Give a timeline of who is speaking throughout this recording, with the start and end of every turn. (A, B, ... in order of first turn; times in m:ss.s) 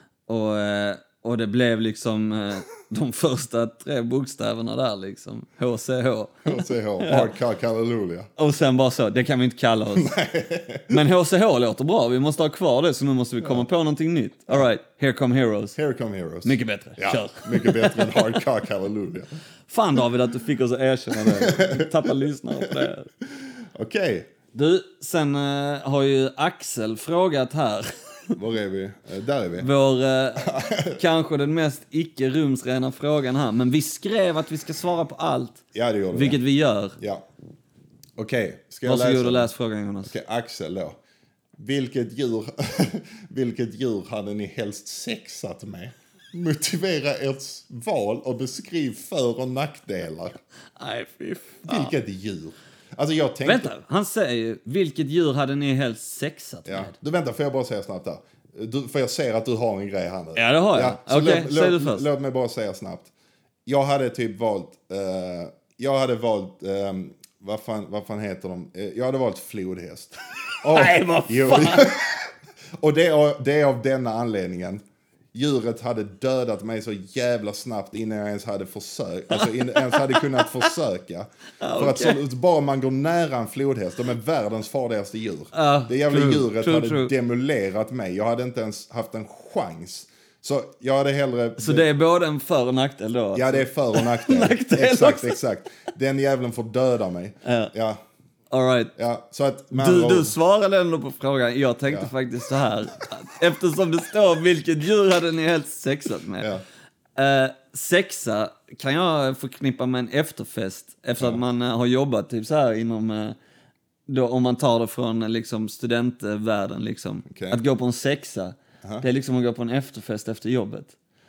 0:00.3-0:07.3 A
0:06.5-0:08.3 B
0:08.4-0:10.1 A
0:09.9-0:11.0 B
0:10.9-0:15.8 A
0:15.8-0:19.3 B
0:16.4-0:18.4 A
0:19.7-0:23.1 A
0:21.1-0:21.9 B
0:22.7-0:24.3 B
0:24.5-0:28.4 A
0:28.4-0:29.7 B
0:29.6-0:37.0 A
0:30.4-0:31.0 B
0:35.7-0:36.4 B
0:37.0-0:37.2 B
0:38.2-0:39.5 B
0:38.8-0:40.1 A
0:40.0-0:41.0 B
0:41.6-0:50.4 B
0:50.8-0:51.9 A
0:51.6-0:53.7 B
0:53.4-0:56.9 A
0:56.7-1:03.1 B
1:00.4-1:02.1 A
1:03.7-1:14.8 B
1:10.6-1:11.9 A
1:15.3-1:31.9 B
1:19.3-1:20.7 A
1:21.6-1:22.2 A
1:25.5-1:27.1 A
1:31.6-1:35.4 A
1:33.3-1:38.0 B
1:37.4-1:37.7 A
1:38.5-1:38.9 A
1:39.0-1:40.3 B
1:39.7-1:46.5 A
1:47.2-1:53.4 A
1:54.1-2:01.0 A
1:57.3-1:57.6 B